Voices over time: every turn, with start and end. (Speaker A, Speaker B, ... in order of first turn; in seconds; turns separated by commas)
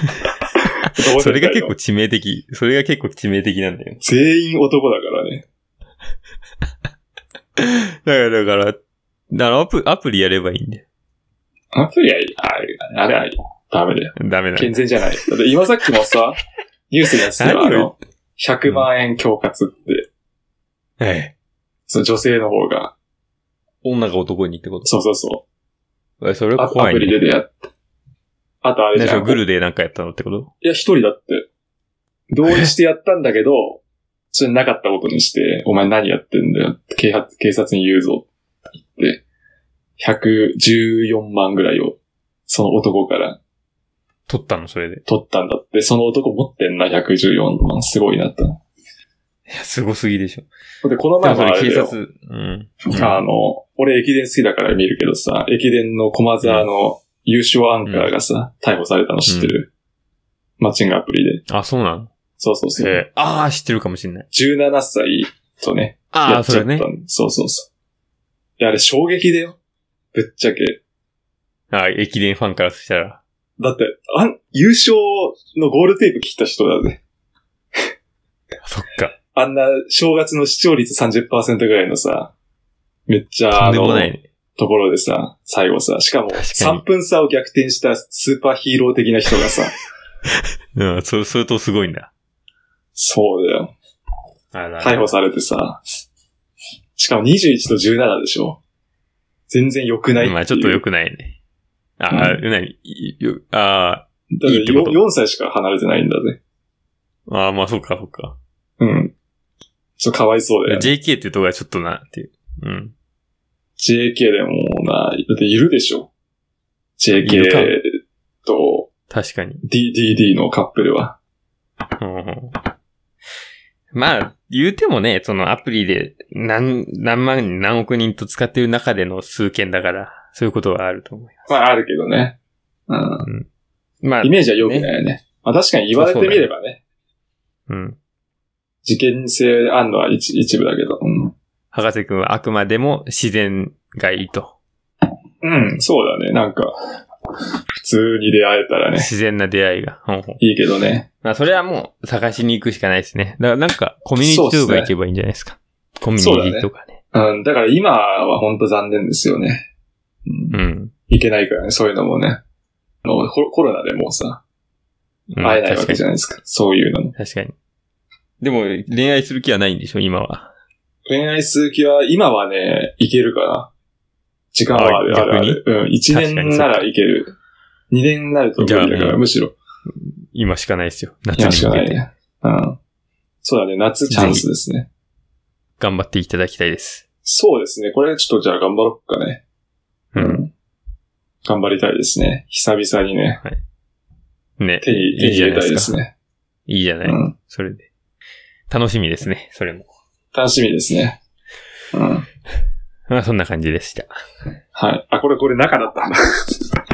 Speaker A: 0.9-1.7, Speaker B: 1.2-4.0, Speaker A: 4.0-5.4, Speaker B: 7.6-8.8, Speaker B: 9.3-10.8, Speaker A: 11.7-16.4, Speaker B: 14.2-14.7, Speaker A: 16.9-20.1, Speaker B: 17.4-17.9, Speaker B: 21.0-21.3, Speaker A: 21.9-22.9, Speaker B: 23.8-24.9, Speaker A: 24.8-25.4, Speaker B: 26.2-27.2, Speaker A: 26.6-27.5, Speaker A: 28.6-29.4, Speaker B: 28.9-30.5, Speaker A: 30.6-31.5, Speaker A: 32.3-33.8, Speaker A: 34.3-38.3, Speaker A: 38.8-39.2, Speaker A: 40.0-43.4, Speaker B: 44.3-45.0, Speaker A: 45.1-48.6, Speaker B: 49.5-50.5, Speaker A: 50.8-51.9, Speaker B: 51.2-53.2, Speaker A: 52.9-59.7, Speaker B: 56.4-56.7, Speaker B: 57.8-58.1, Speaker B: 59.3-59.5, Speaker A: 60.6-61.4, Speaker B: 61.5-62.1, Speaker A: 62.4-63.0, Speaker B: 62.8-64.2, Speaker A: 64.3-67.7, Speaker B: 66.1-66.9, Speaker A: 68.6-69.6, Speaker A: 70.1-70.8, Speaker B: 71.7-73.2, Speaker A: 73.6-77.0, Speaker B: 78.6-79.1, Speaker A: 79.3-82.3, Speaker A: 83.1-89.7, Speaker B: 83.5-84.2, Speaker B: 86.3-86.8, Speaker B: 90.8-92.1, Speaker A: 92.9-93.7, Speaker B: 94.5-95.1, Speaker A: 94.8-95.8, Speaker A: 97.0-98.6, Speaker A: 99.5-100.8, Speaker B: 100.2-101.4, Speaker B: 102.0-105.0, Speaker A: 102.1-102.4, Speaker A: 104.4-106.4, Speaker B: 107.3-108.3, Speaker A: 108.8-109.1, Speaker A: 110.0-110.9, Speaker B: 110.7-112.9, Speaker A: 113.8-116.1, Speaker A: 117.0-118.9, Speaker B: 117.2-117.7, Speaker B: 119.1-119.6, Speaker A: 119.6-121.2, Speaker B: 122.0-122.5, Speaker B: 123.9-131.6, Speaker A: 131.5-132.3, Speaker A: 132.9-133.2, Speaker B: 134.0-134.9, Speaker A: 134.2-136.8, Speaker B: 135.9-136.5, Speaker B: 137.7-138.0, Speaker A: 138.8-141.3, Speaker B: 141.7-144.5, Speaker A: 145.4-146.7, Speaker A: 147.8-149.1, Speaker B: 148.9-150.4, Speaker A: 150.4-151.1, Speaker B: 151.2-156.9, Speaker A: 154.2-154.9, Speaker A: 156.2-159.7, Speaker A: 160.2-160.6, Speaker B: 160.5-160.9, Speaker A: 161.1-162.4, Speaker A: 163.0-164.4, Speaker B: 165.3-166.0, Speaker A: 165.4-167.1, Speaker B: 167.2-167.5, Speaker B: 168.4-170.5, Speaker A: 171.1-173.7, Speaker A: 174.5-177.3, Speaker B: 174.7-176.8, Speaker A: 177.9-179.5, Speaker B: 178.6-179.2, Speaker B: 180.3-182.0, Speaker A: 181.3-182.8, Speaker A: 183.4-184.9, Speaker B: 184.1-184.4, Speaker B: 185.8-187.0, Speaker A: 187.2-189.4, Speaker B: 190.1-190.4, Speaker A: 190.2-190.5, Speaker A: 191.4-193.4, Speaker B: 194.6-196.0, Speaker A: 194.8-196.1, Speaker B: 196.7-197.9, Speaker A: 197.0-197.3, Speaker B: 198.7-199.9, Speaker A: 200.3-201.2, Speaker A: 201.9-202.2, Speaker B: 203.1-204.1, Speaker A: 204.7-206.7